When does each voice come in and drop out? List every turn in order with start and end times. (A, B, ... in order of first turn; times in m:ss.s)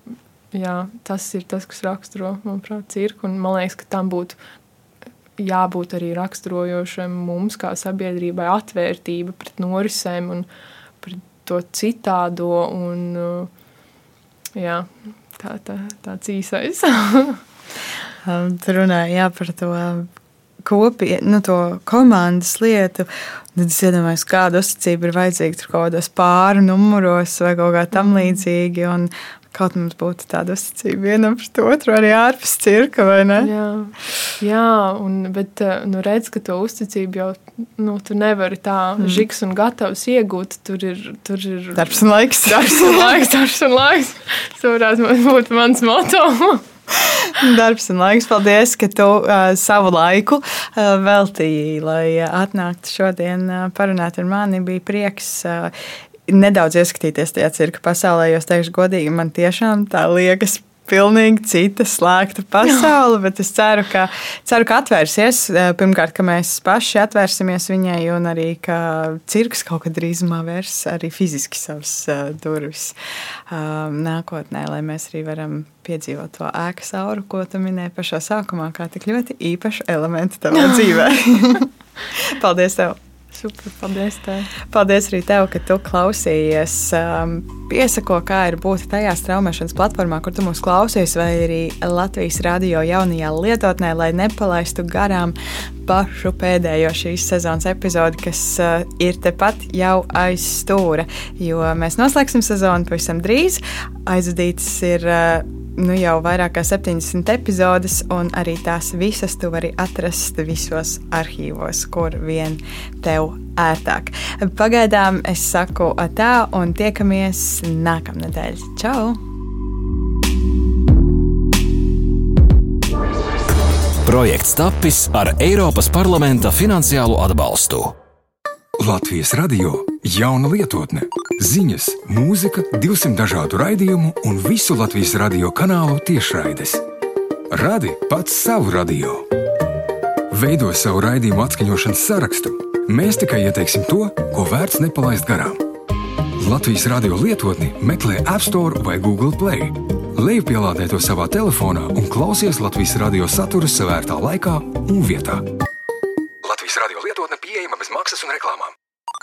0:00.5-0:04.4 A
0:05.4-0:10.5 A
0:11.0-0:13.5 A
0:14.6-0:17.4 A
0:18.2-0:20.1 B
0:20.6-0:33.5 B
0:33.4-0:46.6 A
0:39.0-0:39.2 B
0:41.8-0:43.2 B
0:47.3-0:55.7 B
0:56.3-1:13.0 B
1:13.5-1:23.0 B
1:20.6-1:21.0 A
1:23.3-1:24.5 A
1:24.6-1:59.2 B
2:04.0-2:07.9 C
2:08.8-2:16.8 D
2:17.5-2:19.3 D
2:20.3-2:25.6 D
2:26.4-2:35.4 D
2:36.4-2:38.8 D